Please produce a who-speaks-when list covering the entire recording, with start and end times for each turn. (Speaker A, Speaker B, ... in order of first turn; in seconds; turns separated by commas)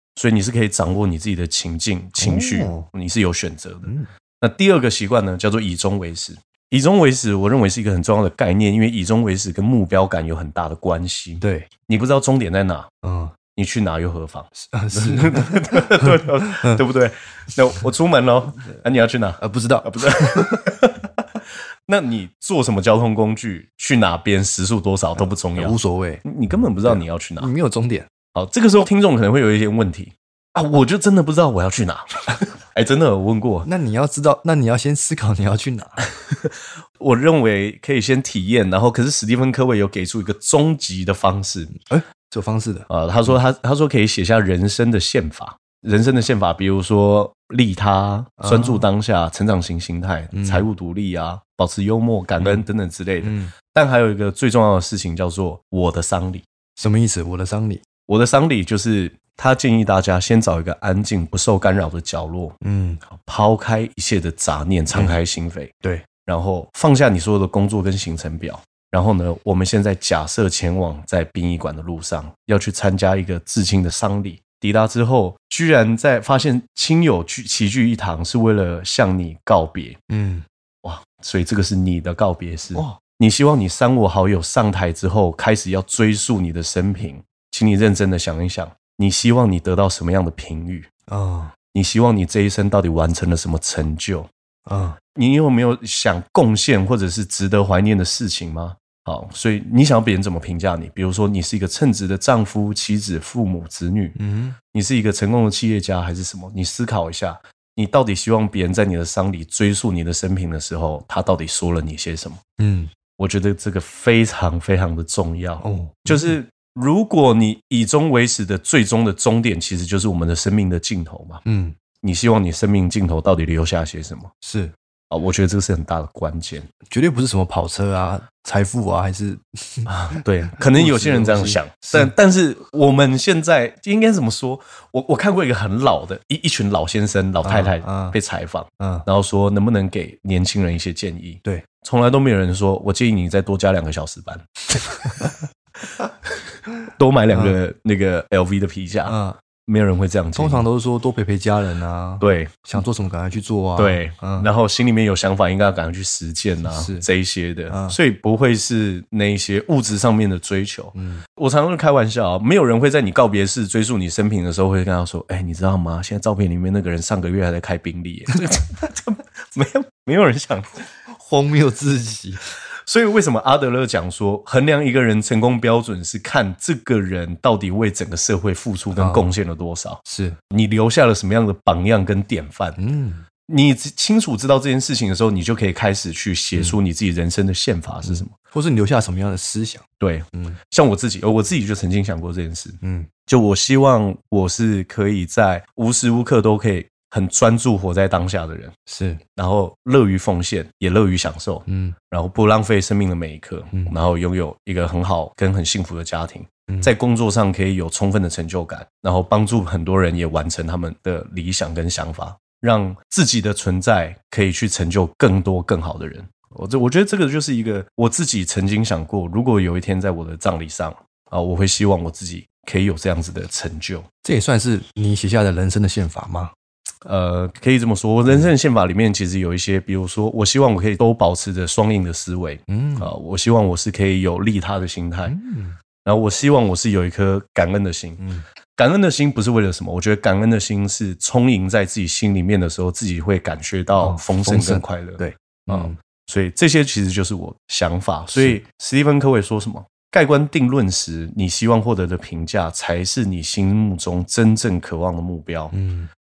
Speaker A: 0.1-12.9, Speaker B: 2.2-2.9, Speaker B: 11.4-11.7, Speaker B: 13.0-13.3, Speaker A: 13.5-27.5, Speaker B: 14.6-16.8, Speaker B: 19.4-20.6, Speaker B: 25.6-26.2, Speaker B: 26.8-28.1, Speaker A: 28.3-33.7, Speaker B: 33.6-36.0, Speaker A: 36.2-41.7, Speaker B: 41.8-42.9, Speaker A: 42.9-56.4, Speaker B: 48.4-48.8, Speaker B: 50.3-50.6, Speaker B: 52.4-52.6, Speaker B: 53.2-53.5, Speaker B: 56.8-57.8, Speaker A: 58.1-62.5, Speaker B: 62.6-63.0, Speaker A: 63.1-65.7, Speaker A: 66.2-80.0, Speaker B: 80.1-80.4, Speaker A: 80.8-90.9, Speaker B: 82.7-83.0, Speaker B: 91.1-91.5, Speaker A: 91.7-94.3, Speaker B: 94.7-95.0, Speaker A: 95.1-104.2, Speaker B: 104.2-104.6, Speaker A: 104.7-112.4, Speaker B: 112.6-112.9, Speaker A: 113.2-121.4, Speaker B: 115.6-116.3, Speaker B: 121.4-121.8, Speaker A: 122.0-124.3, Speaker B: 124.4-124.7, Speaker A: 125.1-126.7, Speaker B: 126.9-132.1, Speaker A: 129.9-145.3, Speaker B: 137.4-138.2, Speaker B: 138.8-139.0, Speaker A: 146.9-150.6, Speaker B: 147.3-147.6, Speaker B: 149.1-149.4, Speaker B: 150.3-154.5, Speaker A: 152.2-152.6, Speaker A: 153.8-170.8, Speaker B: 156.6-157.1, Speaker B: 157.7-158.0, Speaker B: 160.9-161.2, Speaker B: 171.1-172.5, Speaker A: 172.8-182.8, Speaker B: 178.9-179.2, Speaker B: 180.1-180.4, Speaker B: 182.8-183.2, Speaker A: 183.5-188.3, Speaker B: 188.0-190.6, Speaker A: 190.0-198.7, Speaker B: 192.8-193.1, Speaker B: 198.9-199.2, Speaker A: 199.3-224.1, Speaker B: 201.7-201.9, Speaker B: 224.2-226.5, Speaker A: 227.0-235.3, Speaker B: 232.7-233.1, Speaker B: 235.2-235.8, Speaker A: 236.0-238.2, Speaker B: 238.2-238.4, Speaker A: 238.8-255.7, Speaker B: 244.0-246.0, Speaker B: 248.3-248.6, Speaker B: 255.7-256.1